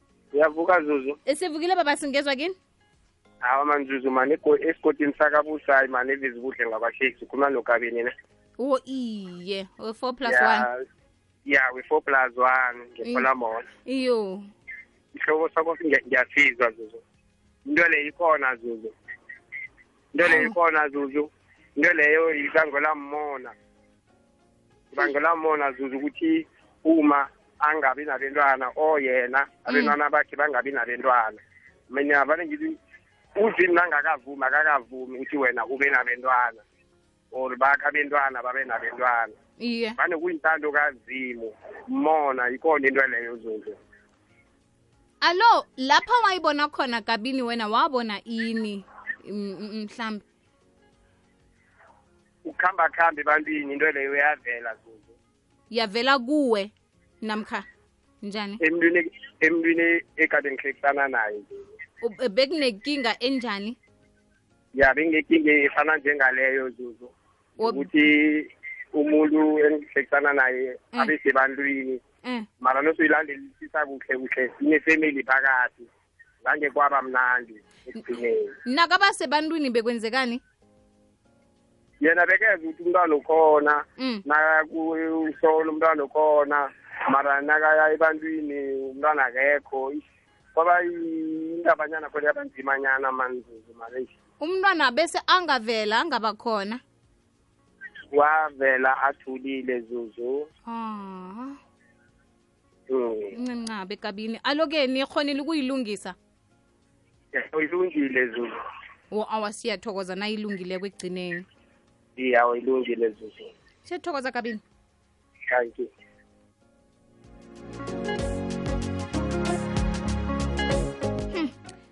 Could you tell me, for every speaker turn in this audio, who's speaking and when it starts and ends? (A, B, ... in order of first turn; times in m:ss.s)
0:00.3-0:01.2 A
0:01.3-0:02.6 B
0:03.4-0:08.1 A
0:08.6-0:10.6 B
0:10.3-0:10.8 A
0:11.4-0:13.6 A
0:13.9-0:14.5 B
0:15.1-0:17.0 A
0:17.6-0:18.9 A
0:20.1-0:23.5 A
0:20.2-0:20.5 B
0:24.9-0:32.8 A
0:29.7-0:29.9 B
0:33.4-0:36.6 A
0:37.3-0:39.4 A
0:39.6-0:40.0 B
0:40.0-0:43.8 A
0:45.2-0:50.2 B
0:52.4-0:55.1 A
0:55.7-0:57.6 B
0:58.2-0:58.6 B
0:58.6-1:01.6 A
1:02.0-1:03.8 B
1:04.8-1:12.0 A
1:07.6-1:07.9 B
1:12.6-1:15.9 A
1:16.4-1:18.5 A
1:18.6-1:20.4 B
1:22.0-1:34.1 A
1:34.4-1:36.8 B
1:38.1-1:40.5 A
1:40.7-1:41.6 B
1:42.9-1:43.3 A
1:43.4-1:46.2 B
1:47.3-1:48.6 A
1:49.1-1:51.4 B
1:52.2-1:53.5 A
1:53.9-1:54.6 B
1:55.5-1:55.9 A